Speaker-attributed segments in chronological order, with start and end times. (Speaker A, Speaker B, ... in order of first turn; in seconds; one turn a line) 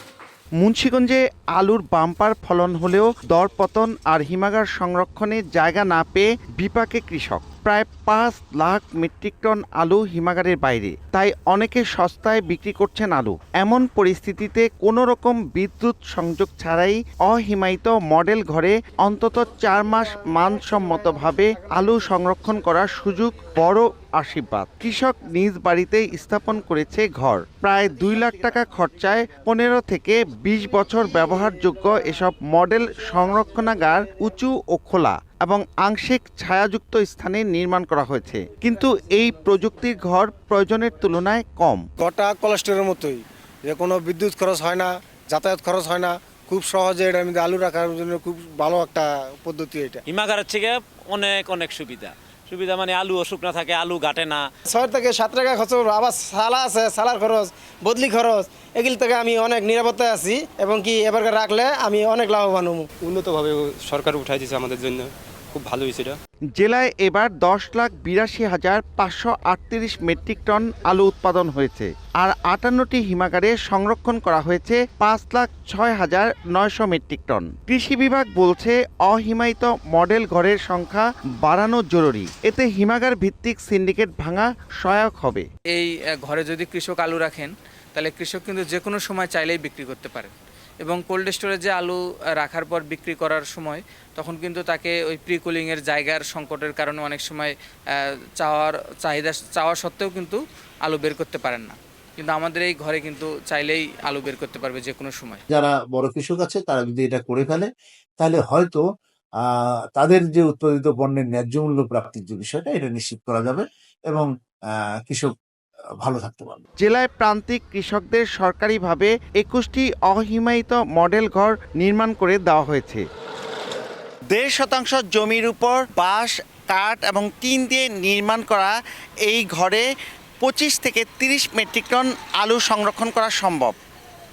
Speaker A: 0.6-41.9
Speaker B: 42.0-50.0
Speaker C: 50.1-54.4
Speaker D: 54.7-62.9
Speaker E: 63.1-66.2
Speaker A: 66.5-85.5
Speaker F: 85.7-105.4
Speaker G: 105.5-108.8
Speaker G: 110.0-114.3
Speaker G: 115.0-115.3
Speaker G: 116.0-116.6
Speaker A: 116.8-123.0
Speaker A: 124.3-129.8
Speaker A: 130.4-133.8